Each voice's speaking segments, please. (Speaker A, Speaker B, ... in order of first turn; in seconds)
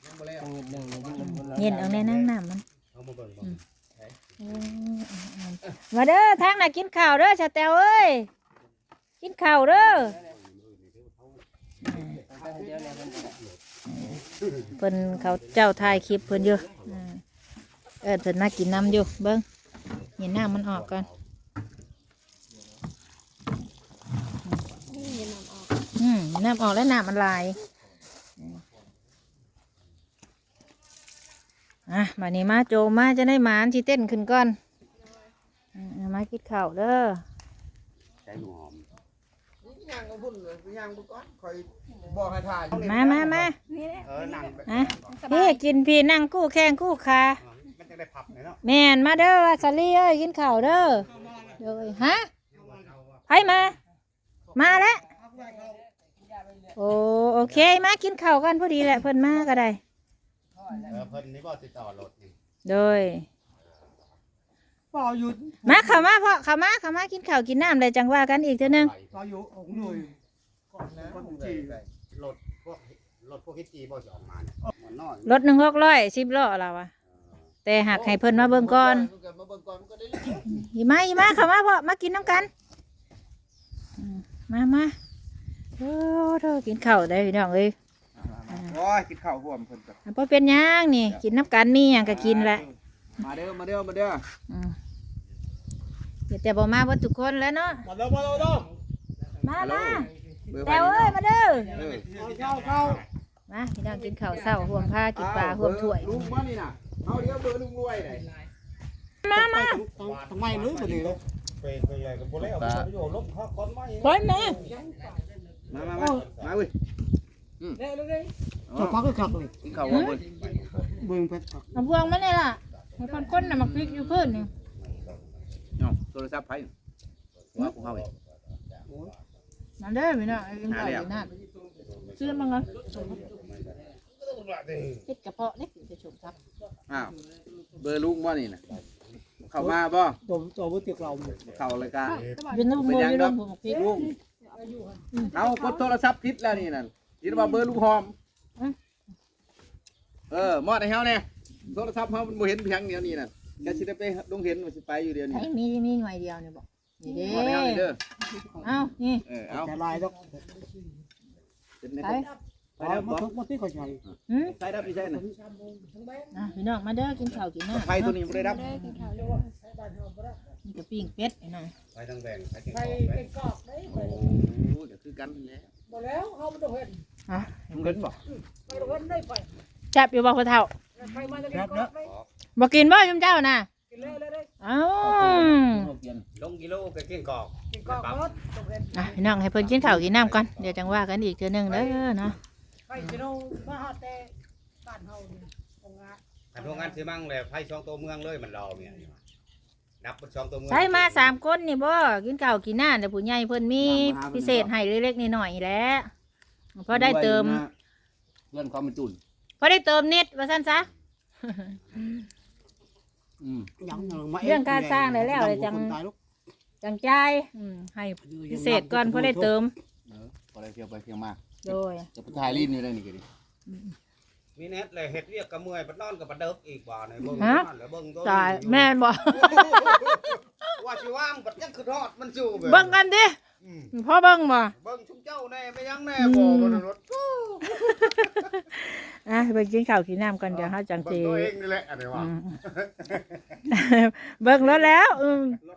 Speaker A: 0.4-2.0, 12.2-13.4, 55.5-56.8
Speaker B: 1.2-2.6, 4.4-8.3, 9.2-10.2, 11.8-12.2, 13.9-14.2, 14.8-17.2, 18.0-19.4, 20.2-21.1, 26.0-27.6, 31.9-34.6, 35.7-37.2, 42.8-43.5, 44.6-47.4, 48.6-51.1, 51.6-52.3, 53.3-53.8, 54.5-55.0, 56.8-59.8, 60.7-61.0, 62.6-63.3, 65.7-68.9, 69.7-70.0, 75.2-76.9, 77.6-79.1, 80.5-82.5, 84.0-84.9, 85.8-87.7, 90.0-92.6, 94.5-94.7, 96.3-97.9, 99.4-100.1, 100.6-101.8, 103.5-106.2, 109.2-109.8, 114.0-114.6, 119.8-120.2, 121.7-124.5, 129.8-131.3, 132.2-132.7, 135.1-136.3, 142.5-144.0, 155.3-157.9, 158.6-159.2, 162.0-162.3, 164.3-164.6, 166.3-169.1, 170.6-171.7, 177.3-178.0, 179.9-180.7, 182.6-183.7, 184.6-185.9, 188.9-192.4, 200.7-206.1, 206.8-207.6, 209.6-210.9, 211.4-212.2, 213.9-216.0, 216.8-219.7, 221.6-222.1, 223.7-223.9, 227.4-227.7, 228.2-230.4, 232.6-233.4, 233.9-234.7, 236.2-236.8, 237.7-241.5, 242.1-242.6, 243.7-245.6
Speaker C: 1.4-2.3, 2.9-4.2, 10.0-11.4, 12.1-12.7, 14.4-14.7, 15.3-15.8, 20.5-21.2, 38.2-38.9, 42.7-43.5, 44.0-45.2, 47.4-48.6, 51.1-51.7, 52.5-53.2, 57.5-57.8, 60.9-62.3, 68.6-69.1, 71.0-75.4, 101.8-103.0, 110.0-113.2, 115.7-116.5, 119.9-120.9, 124.8-125.4, 127.5-128.1, 128.7-129.1, 131.7-135.0, 141.0-142.4, 171.9-173.2, 182.0-182.3, 186.3-188.3, 189.2-190.9, 196.5-199.2, 200.0-201.4, 224.6-233.0, 233.6-233.9, 234.8-238.3, 240.5-243.4
Speaker D: 24.9-25.8, 43.5-45.6, 142.0-142.8, 143.9-144.7, 145.2-145.9, 168.2-169.5
Speaker E: 39.6-41.4, 42.7-43.4, 71.3-71.8, 77.8-80.5, 88.2-90.0, 92.0-94.2, 99.5-102.1, 105.1-108.3, 112.4-112.9, 115.7-116.7, 118.7-119.0, 119.6-120.3, 123.2-124.2, 125.8-126.7, 127.6-128.1, 130.7-131.1, 136.9-137.1, 137.8-138.6, 139.4-140.2, 141.4-144.1, 145.3-148.1, 150.3-155.5, 157.1-158.0, 159.2-159.7, 161.8-163.3, 164.1-165.2, 167.7-168.7, 173.9-175.7, 177.7-178.2, 181.3-181.9, 185.0-186.2, 203.8-204.7, 206.9-207.7, 208.5-209.2, 213.4-213.7, 220.1-221.4, 222.1-223.2
Speaker F: 51.1-51.6, 55.1-55.8, 64.9-66.0, 69.1-70.1, 70.7-71.8, 97.8-98.7, 102.1-103.0, 109.3-111.2, 112.9-115.3, 115.9-116.3, 117.8-119.5, 120.9-121.7, 132.9-133.2, 139.6-141.4, 143.7-145.1, 159.5-160.9, 162.2-164.0, 165.0-166.5, 169.0-170.4, 172.7-174.4, 175.9-177.0, 178.3-179.5, 180.9-182.1, 183.9-184.5, 187.7-189.1, 191.7-192.0, 192.9-194.3, 194.8-197.0, 213.8-216.2, 218.3-219.5